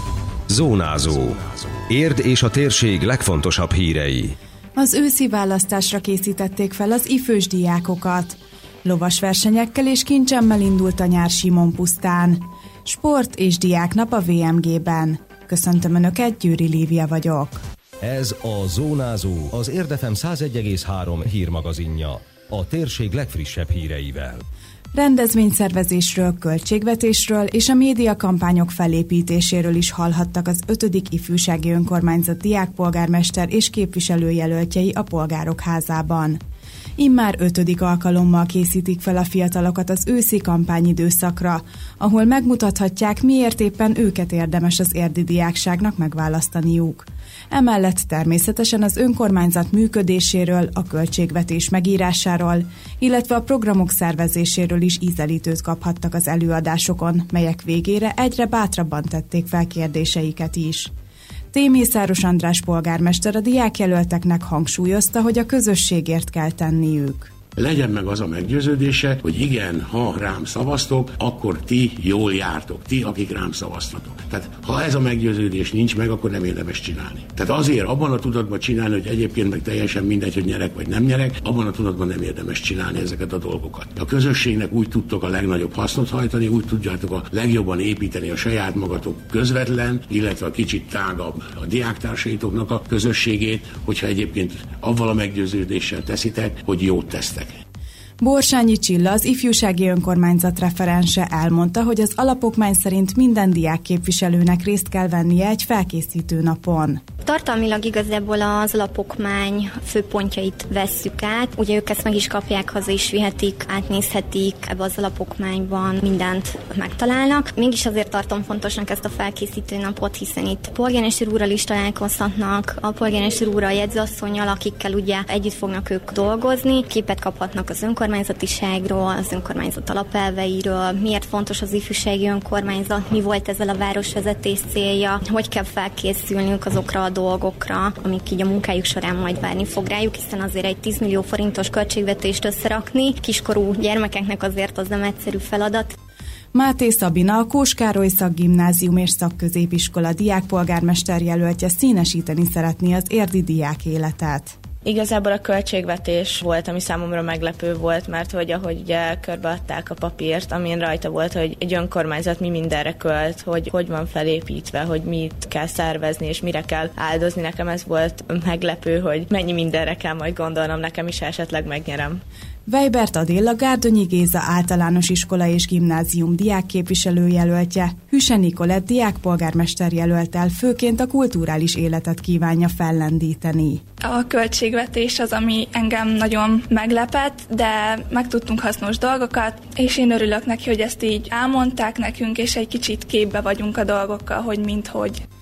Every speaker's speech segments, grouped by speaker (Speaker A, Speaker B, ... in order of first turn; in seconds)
Speaker A: 0.5-4.4, 18.0-24.4
Speaker B: 4.8-17.6, 24.9-36.4, 37.0-60.9, 61.5-67.3, 98.2-107.0, 146.5-154.6, 172.7-183.8
Speaker C: 67.6-97.6
Speaker D: 107.2-145.9
Speaker E: 154.8-172.2
Speaker F: 184.0-195.2